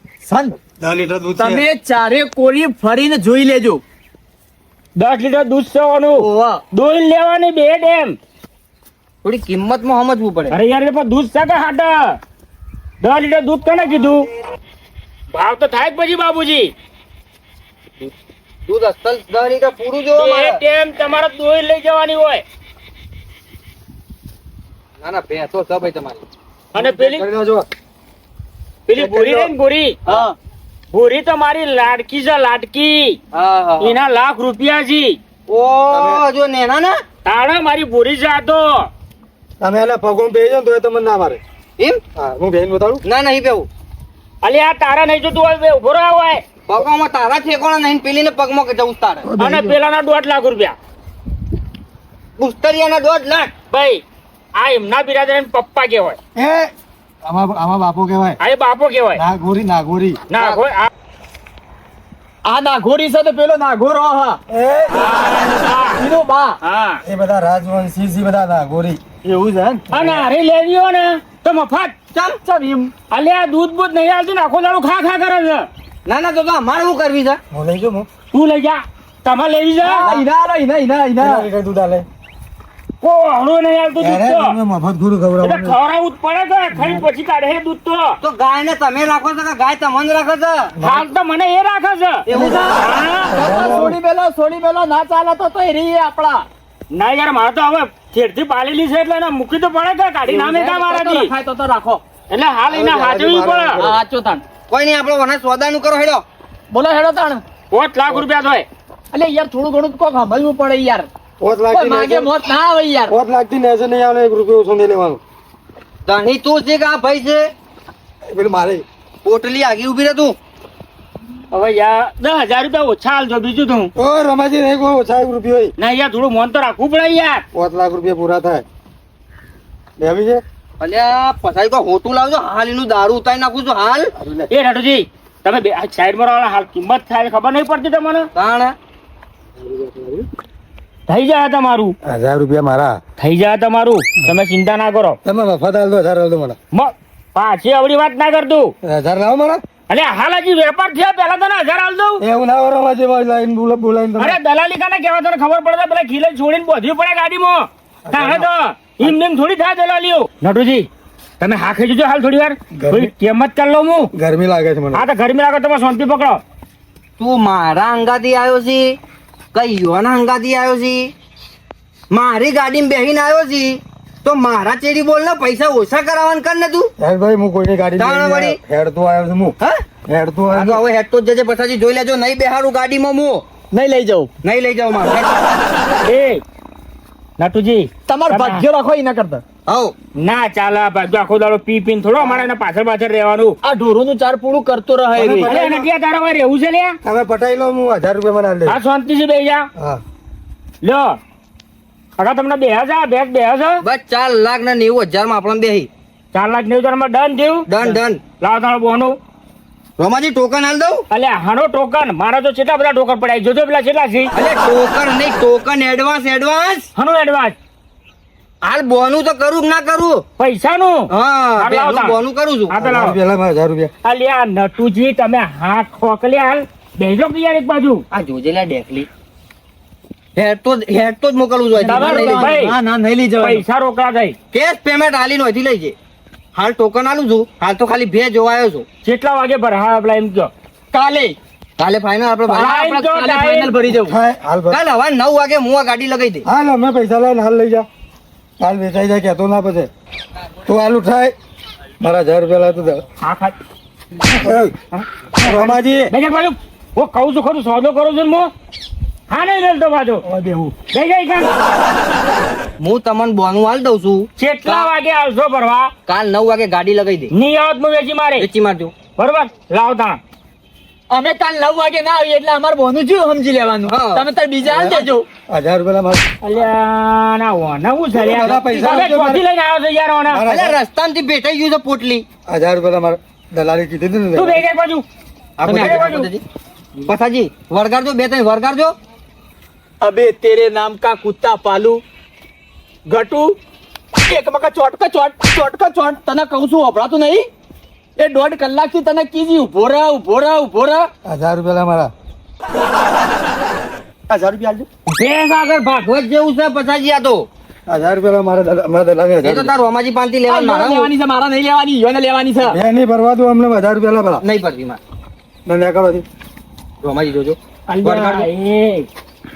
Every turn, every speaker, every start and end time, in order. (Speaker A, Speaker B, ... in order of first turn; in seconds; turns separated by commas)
Speaker A: 0.3-0.6, Speaker B: 0.8-1.6, Speaker A: 1.4-3.8, Speaker C: 5.0-8.2, Speaker A: 6.1-6.6, Speaker D: 9.2-10.6, Speaker C: 10.5-12.2, Speaker C: 13.0-14.3, Speaker C: 15.3-16.7, Speaker D: 18.7-20.6, Speaker C: 20.1-22.4, Speaker D: 25.0-26.2, Speaker C: 26.7-27.3, Speaker B: 26.8-27.7, Speaker C: 28.9-30.0, Speaker D: 29.0-29.5, Speaker C: 30.9-33.2, Speaker D: 33.3-34.0, Speaker C: 33.8-35.2, Speaker D: 35.5-37.0, Speaker B: 35.9-36.2, Speaker C: 37.2-38.9, Speaker B: 39.6-41.4, Speaker B: 42.2-43.0, Speaker D: 43.0-43.7, Speaker C: 44.4-46.4, Speaker D: 46.7-49.3, Speaker B: 49.2-49.8, Speaker C: 49.4-50.8, Speaker D: 52.4-53.5, Speaker C: 53.7-54.0, Speaker C: 54.6-56.2, Speaker B: 56.4-56.7, Speaker B: 57.2-58.4, Speaker C: 58.4-59.2, Speaker B: 59.1-60.2, Speaker C: 60.3-60.9, Speaker A: 62.5-64.4, Speaker B: 64.5-65.0, Speaker C: 64.9-66.0, Speaker A: 66.0-66.6, Speaker C: 66.6-67.0, Speaker B: 67.0-69.0, Speaker A: 69.2-70.0, Speaker C: 69.9-71.9, Speaker A: 72.2-72.9, Speaker C: 73.1-75.7, Speaker D: 76.1-77.4, Speaker B: 77.5-78.1, Speaker C: 78.3-80.1, Speaker A: 79.8-81.5, Speaker D: 80.0-80.2, Speaker B: 81.2-82.1, Speaker C: 83.0-84.6, Speaker B: 84.0-85.8, Speaker C: 85.4-88.2, Speaker B: 86.7-87.0, Speaker D: 88.2-90.7, Speaker B: 90.8-91.1, Speaker C: 90.8-92.2, Speaker A: 92.3-92.7, Speaker D: 92.3-92.8, Speaker B: 92.3-92.6, Speaker C: 92.8-93.3, Speaker B: 93.3-94.0, Speaker A: 93.3-96.5, Speaker C: 96.9-101.3, Speaker A: 100.3-102.0, Speaker C: 102.3-103.8, Speaker B: 102.7-104.0, Speaker A: 103.8-104.4, Speaker D: 104.7-106.2, Speaker A: 106.7-107.4, Speaker C: 107.7-108.7, Speaker A: 109.1-111.1, Speaker B: 111.4-112.3, Speaker A: 111.7-113.1, Speaker B: 113.1-115.2, Speaker D: 116.0-117.5, Speaker B: 118.3-118.8, Speaker D: 119.2-120.4, Speaker C: 121.5-123.9, Speaker B: 124.0-125.7, Speaker C: 125.8-127.4, Speaker B: 127.5-128.7, Speaker B: 130.0-130.4, Speaker D: 130.8-134.1, Speaker B: 134.2-134.5, Speaker C: 134.5-138.3, Speaker D: 138.3-138.8, Speaker B: 139.6-140.3, Speaker C: 141.1-141.9, Speaker B: 142.1-143.0, Speaker C: 143.2-145.2, Speaker B: 145.2-146.6, Speaker C: 146.7-148.7, Speaker B: 148.8-149.6, Speaker C: 149.9-152.2, Speaker B: 152.2-154.4, Speaker C: 154.2-160.9, Speaker B: 158.1-158.5, Speaker C: 161.4-164.1, Speaker B: 162.8-163.1, Speaker B: 164.1-165.1, Speaker C: 164.9-166.4, Speaker D: 167.2-169.0, Speaker D: 169.5-171.1, Speaker D: 172.1-176.9, Speaker B: 177.0-180.8, Speaker D: 178.0-178.6, Speaker D: 180.5-183.5, Speaker A: 183.7-184.3, Speaker D: 184.4-185.3, Speaker C: 186.1-186.4, Speaker C: 187.4-188.6, Speaker A: 188.1-189.4, Speaker D: 189.7-189.9, Speaker C: 190.2-193.6, Speaker A: 193.6-195.5, Speaker B: 195.1-195.9, Speaker C: 195.4-197.0, Speaker B: 197.0-198.8, Speaker C: 198.7-199.7, Speaker C: 200.8-201.2, Speaker C: 202.2-203.8, Speaker D: 203.8-205.9, Speaker C: 206.3-207.7, Speaker D: 207.7-208.2, Speaker C: 208.4-209.2, Speaker D: 210.0-211.1, Speaker C: 211.1-214.3, Speaker D: 214.3-216.9, Speaker C: 217.0-217.6, Speaker D: 218.6-220.2, Speaker C: 220.4-222.2, Speaker D: 221.1-222.8, Speaker C: 222.7-223.2, Speaker B: 222.7-223.9, Speaker C: 224.0-228.0, Speaker D: 228.1-229.1, Speaker D: 230.4-232.5, Speaker A: 231.8-233.6, Speaker C: 231.8-232.7, Speaker C: 233.4-234.4, Speaker D: 234.5-235.9, Speaker D: 236.5-238.9, Speaker C: 239.0-240.5, Speaker A: 240.9-241.4, Speaker D: 241.8-242.9, Speaker A: 242.5-244.2, Speaker C: 242.6-243.7, Speaker B: 243.9-244.8, Speaker D: 244.7-246.5, Speaker B: 246.4-247.9, Speaker B: 248.6-249.9, Speaker B: 250.7-251.3, Speaker B: 252.0-253.0, Speaker C: 253.2-253.5, Speaker B: 254.2-254.8, Speaker C: 254.9-258.5, Speaker B: 255.4-256.1, Speaker C: 259.3-260.2, Speaker B: 260.3-260.8, Speaker C: 260.9-261.5, Speaker D: 262.8-264.9, Speaker C: 264.4-265.9, Speaker D: 266.1-267.3, Speaker C: 267.3-268.5, Speaker D: 268.4-268.9, Speaker C: 269.2-270.2, Speaker A: 271.1-275.2, Speaker D: 273.9-275.1, Speaker B: 275.5-276.3, Speaker C: 276.4-280.4, Speaker B: 278.1-279.4, Speaker B: 280.3-280.8, Speaker D: 280.5-282.3, Speaker B: 282.5-284.6, Speaker C: 284.4-285.1, Speaker D: 285.6-286.4, Speaker C: 285.6-286.3, Speaker A: 285.7-286.2, Speaker D: 287.0-288.9, Speaker A: 290.0-292.0, Speaker A: 293.1-293.6, Speaker A: 294.3-297.5, Speaker A: 298.2-301.1, Speaker B: 301.2-302.1, Speaker A: 304.3-304.9, Speaker C: 305.1-306.1, Speaker D: 305.9-307.5, Speaker B: 307.9-309.7, Speaker D: 309.4-311.1, Speaker A: 310.5-312.8, Speaker B: 312.6-314.4, Speaker D: 314.4-315.0, Speaker B: 315.7-316.3, Speaker D: 317.0-318.5, Speaker C: 317.9-319.1